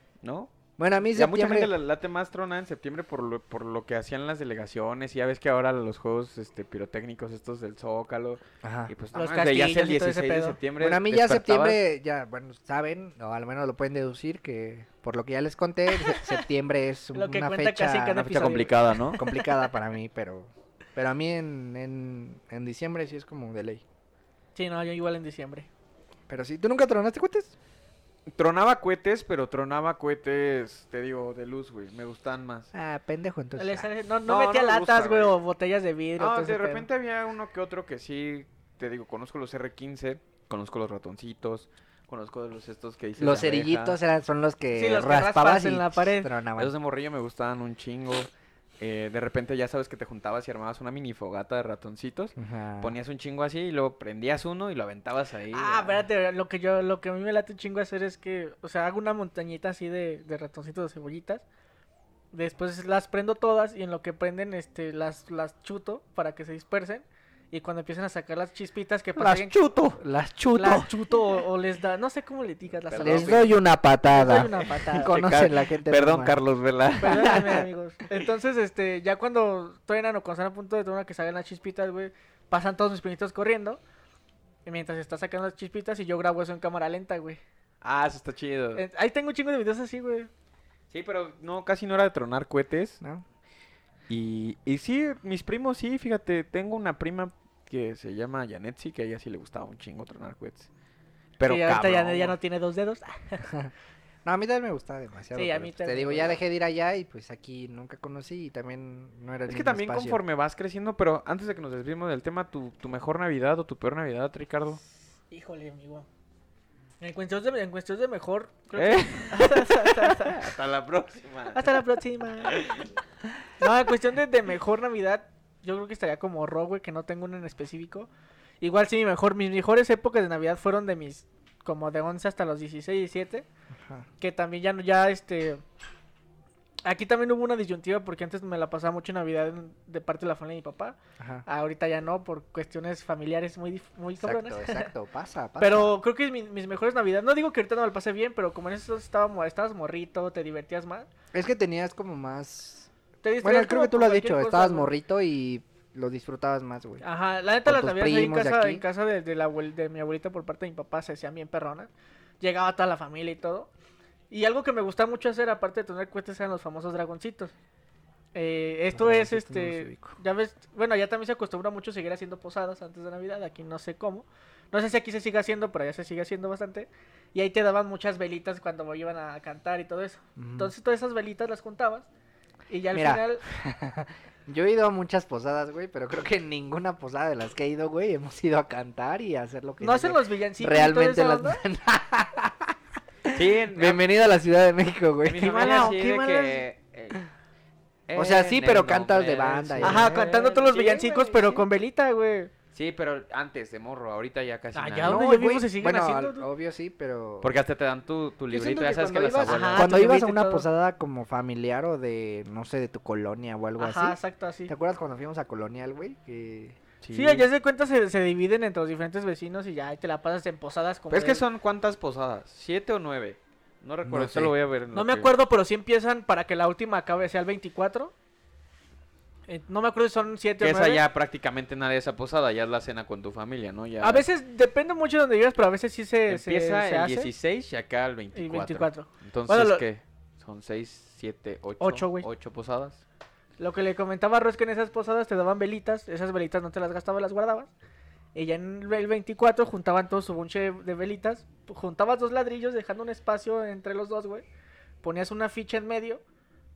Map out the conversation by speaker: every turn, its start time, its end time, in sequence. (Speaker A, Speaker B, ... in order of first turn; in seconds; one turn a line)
Speaker A: 0.2-0.5
Speaker B: 0.8-1.7
Speaker A: 1.1-11.8
Speaker B: 8.6-8.9
Speaker C: 9.1-10.6
Speaker B: 10.8-23.8
Speaker C: 16.0-16.4
Speaker C: 17.1-19.4
Speaker A: 18.3-19.2
Speaker C: 24.6-25.7
Speaker B: 26.3-27.6
Speaker A: 28.4-32.7
Speaker B: 32.7-33.9
Speaker C: 33.6-36.9
Speaker A: 34.3-35.4
Speaker A: 36.2-44.0
Speaker B: 43.2-46.7
Speaker C: 44.7-46.3
Speaker A: 46.6-56.0
Speaker B: 52.4-53.0
Speaker C: 55.5-61.4
Speaker C: 62.3-69.6
Speaker A: 69.2-70.0
Speaker B: 70.0-71.0
Speaker C: 70.5-73.5
Speaker A: 72.9-73.5
Speaker B: 73.0-76.4
Speaker C: 74.1-75.2
Speaker A: 75.0-77.7
Speaker C: 77.0-83.8
Speaker C: 84.7-87.4
Speaker A: 87.8-88.8
Speaker C: 88.8-90.3
Speaker A: 90.9-93.0
Speaker A: 94.1-100.7
Speaker A: 101.4-102.3
Speaker C: 101.5-103.5
Speaker B: 103.4-103.7
Speaker B: 104.2-110.2
Speaker C: 105.3-106.4
Speaker A: 109.5-114.8
Speaker C: 115.3-116.1
Speaker C: 117.0-120.5
Speaker A: 118.8-121.8
Speaker C: 121.5-122.7
Speaker A: 122.5-122.9
Speaker C: 123.6-128.1
Speaker C: 128.6-133.5
Speaker B: 133.8-134.1
Speaker C: 134.2-135.6
Speaker C: 136.8-144.9
Speaker B: 141.2-141.4
Speaker B: 144.2-146.0
Speaker C: 145.6-151.1
Speaker B: 151.3-157.0
Speaker C: 153.2-154.9
Speaker C: 157.0-161.9
Speaker B: 157.7-158.8
Speaker C: 162.4-163.7
Speaker C: 164.3-167.5
Speaker C: 168.3-182.1
Speaker B: 168.9-170.2
Speaker B: 180.4-180.7
Speaker C: 182.7-183.4
Speaker B: 182.9-192.7
Speaker C: 189.8-191.6
Speaker B: 193.3-196.6
Speaker A: 193.3-194.0
Speaker A: 195.2-197.2
Speaker C: 195.4-196.2
Speaker A: 198.1-200.7
Speaker B: 198.2-201.7
Speaker C: 199.8-202.5
Speaker A: 202.7-205.2
Speaker C: 204.7-206.5
Speaker B: 205.1-207.5
Speaker A: 207.4-210.0
Speaker B: 208.5-216.8
Speaker C: 209.4-210.7
Speaker C: 213.8-214.7
Speaker A: 217.0-217.5
Speaker C: 217.1-221.4
Speaker A: 221.1-225.3
Speaker B: 224.0-224.5
Speaker C: 224.9-228.1
Speaker C: 229.5-231.0
Speaker A: 230.6-234.3
Speaker C: 234.0-237.3
Speaker A: 236.3-243.0
Speaker C: 238.3-239.8
Speaker C: 241.8-242.3
Speaker C: 243.6-247.7
Speaker C: 248.3-254.4
Speaker C: 255.0-256.2